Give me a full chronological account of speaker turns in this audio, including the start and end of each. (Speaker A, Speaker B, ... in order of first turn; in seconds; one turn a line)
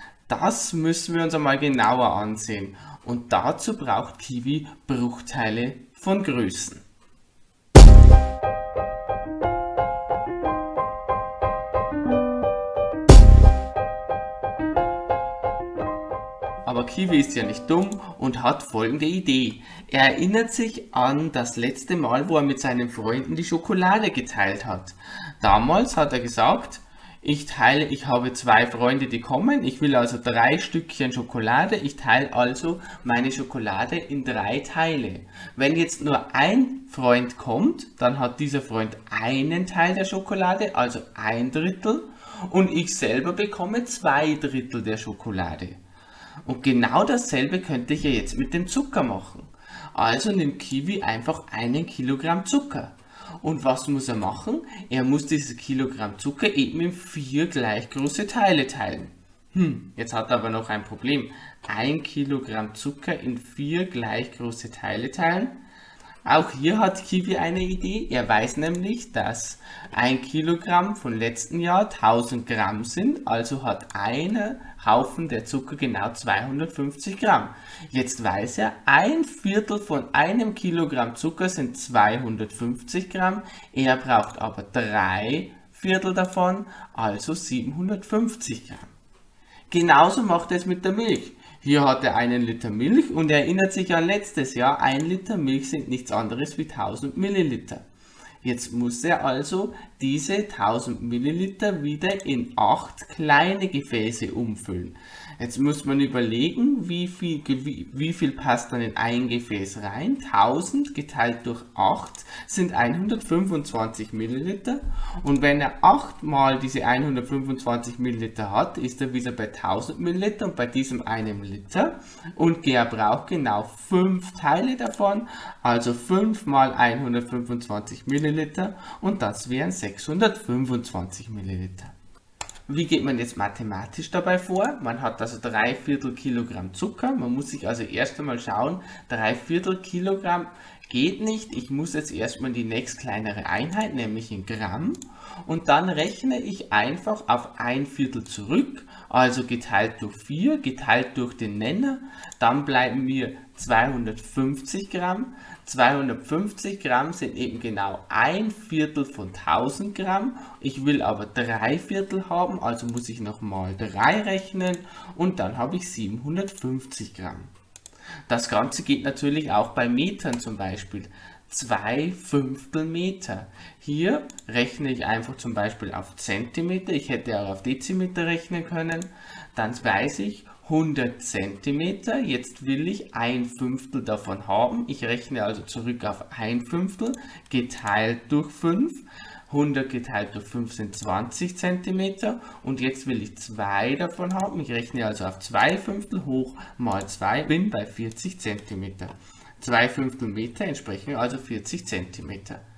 Speaker A: 0.3-6.8
Speaker A: 16.6-45.8
Speaker A: 46.4-65.6
Speaker A: 66.2-88.9
Speaker A: 89.7-97.8
Speaker A: 98.4-131.9
Speaker A: 132.7-167.5
Speaker A: 168.3-202.6